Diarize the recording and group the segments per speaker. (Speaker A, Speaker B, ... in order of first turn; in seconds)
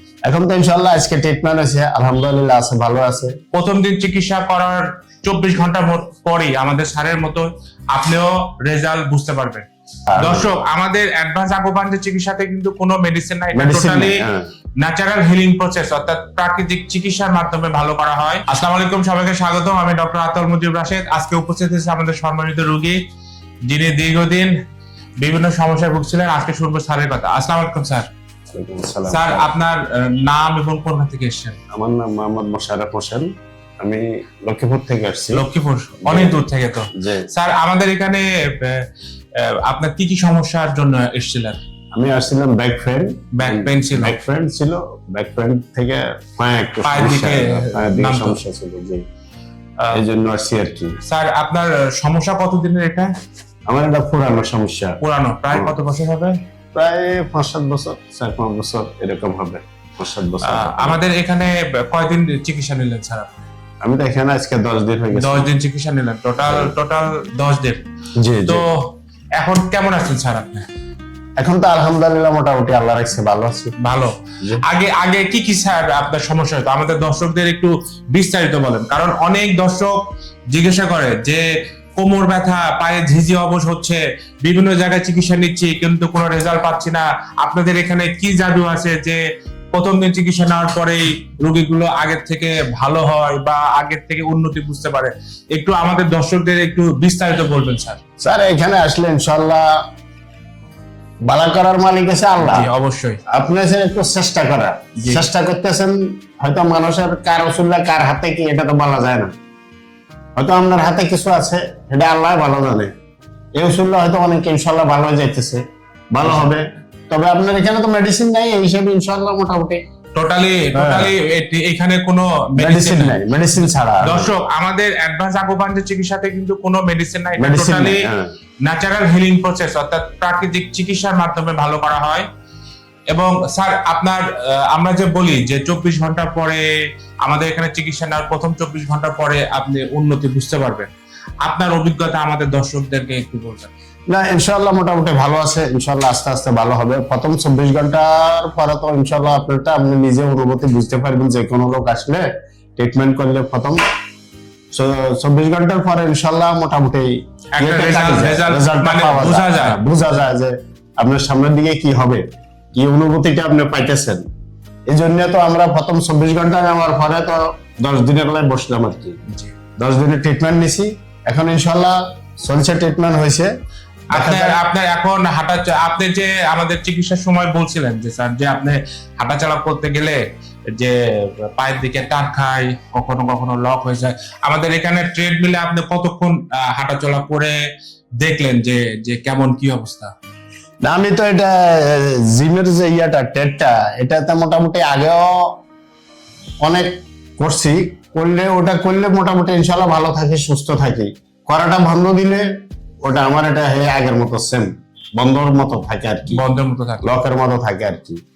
Speaker A: 0.3-3.4, 10.1-10.5, 13.5-14.4, 28.5-29.5, 31.7-33.3, 33.8-35.4, 36.0-36.3, 36.9-37.3, 41.9-49.0, 49.9-51.0, 53.7-55.0, 56.7-61.0, 63.8-65.5, 68.2-68.6, 71.4-73.7, 98.2-99.8, 101.2-102.7, 103.3-109.3, 110.3-112.9, 113.5-119.8, 120.7-121.1, 122.6-124.3, 127.4-128.3, 144.1-152.3, 152.8-153.8, 154.7-162.2, 162.7-164.2, 164.9-169.2, 169.8-173.5, 174.1-174.6, 190.8-195.6, 196.6-202.5, 203.0-206.4, 207.0-208.2
Speaker B: 3.5-9.7, 10.2-14.2, 14.8-23.0, 23.7-24.5, 25.2-28.1, 29.1-31.6, 35.3-38.9, 39.4-41.6, 43.3-44.2, 46.8-48.4, 51.0-53.1, 55.0-56.3, 60.4-63.3, 65.1-67.8, 68.5-70.7, 73.8-80.0, 80.5-81.4, 82.0-89.2, 89.7-98.0, 102.4-103.2, 105.0-105.2, 120.1-123.2, 124.0-128.0, 128.6-132.2, 133.1-136.6, 137.2-140.9, 141.4-143.7, 157.5-159.8, 174.1-180.2, 180.8-187.6, 188.2-190.1, 206.3-207.1